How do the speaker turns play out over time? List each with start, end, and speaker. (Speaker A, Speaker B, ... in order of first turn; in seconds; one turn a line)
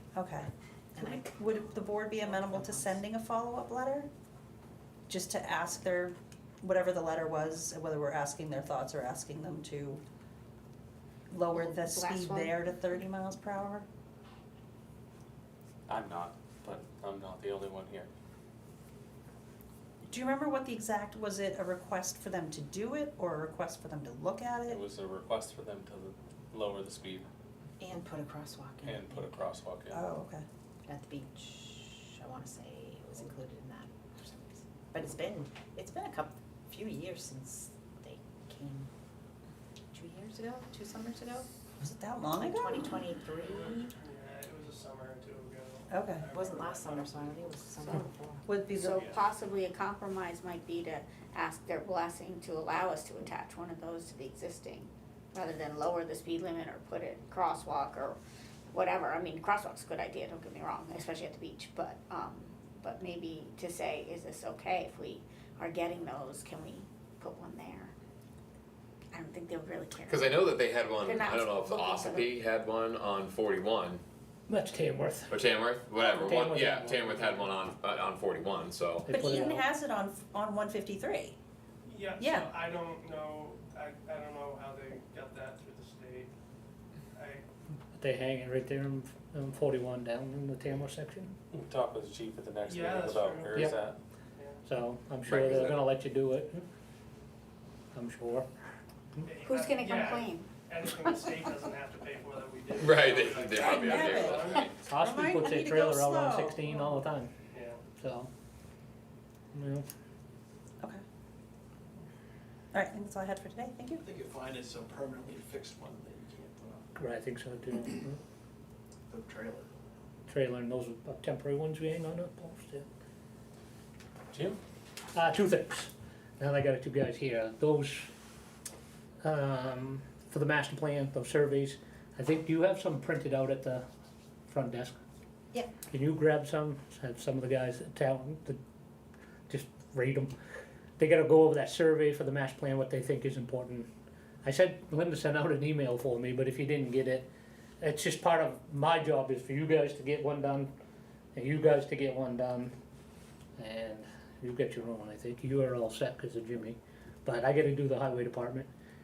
Speaker A: 0.1-4.1
Speaker B: 0.9-1.4
Speaker B: 2.2-3.0
Speaker A: 5.1-10.0
Speaker A: 11.3-13.9
Speaker C: 11.6-12.6
Speaker D: 15.9-18.1
Speaker A: 20.1-24.8
Speaker D: 24.7-27.3
Speaker B: 27.8-29.5
Speaker D: 28.8-30.1
Speaker A: 29.9-30.4
Speaker B: 30.9-38.9
Speaker B: 39.9-41.5
Speaker A: 41.8-42.9
Speaker B: 42.2-43.9
Speaker E: 43.4-47.6
Speaker A: 45.9-46.2
Speaker B: 46.3-48.5
Speaker A: 48.5-49.0
Speaker C: 48.8-58.2
Speaker E: 48.9-49.2
Speaker C: 58.7-67.9
Speaker C: 69.2-70.4
Speaker F: 69.9-74.0
Speaker C: 71.0-72.3
Speaker G: 74.5-75.4
Speaker F: 75.3-79.1
Speaker G: 76.0-77.5
Speaker G: 79.1-79.7
Speaker A: 79.1-81.4
Speaker E: 81.9-86.3
Speaker A: 82.2-82.5
Speaker E: 87.1-87.4
Speaker G: 88.0-91.3
Speaker D: 91.5-94.0
Speaker E: 92.7-93.7
Speaker G: 94.7-96.7
Speaker F: 95.3-95.7
Speaker G: 97.9-98.5
Speaker E: 99.3-104.7
Speaker F: 99.5-100.5
Speaker F: 102.8-104.7
Speaker A: 103.5-107.0
Speaker G: 104.9-107.3
Speaker E: 107.5-107.8
Speaker G: 108.0-108.3
Speaker G: 109.5-109.9
Speaker A: 112.7-114.0
Speaker H: 114.0-116.9
Speaker G: 117.0-118.2
Speaker H: 119.1-119.9
Speaker G: 120.3-122.9
Speaker D: 124.3-124.6
Speaker G: 125.1-128.1
Speaker G: 129.2-133.8
Speaker G: 134.5-135.0
Speaker G: 135.9-138.6
Speaker G: 139.5-140.3
Speaker G: 141.0-143.9
Speaker G: 144.4-147.3
Speaker G: 147.8-150.7
Speaker G: 151.3-152.7
Speaker G: 153.6-158.7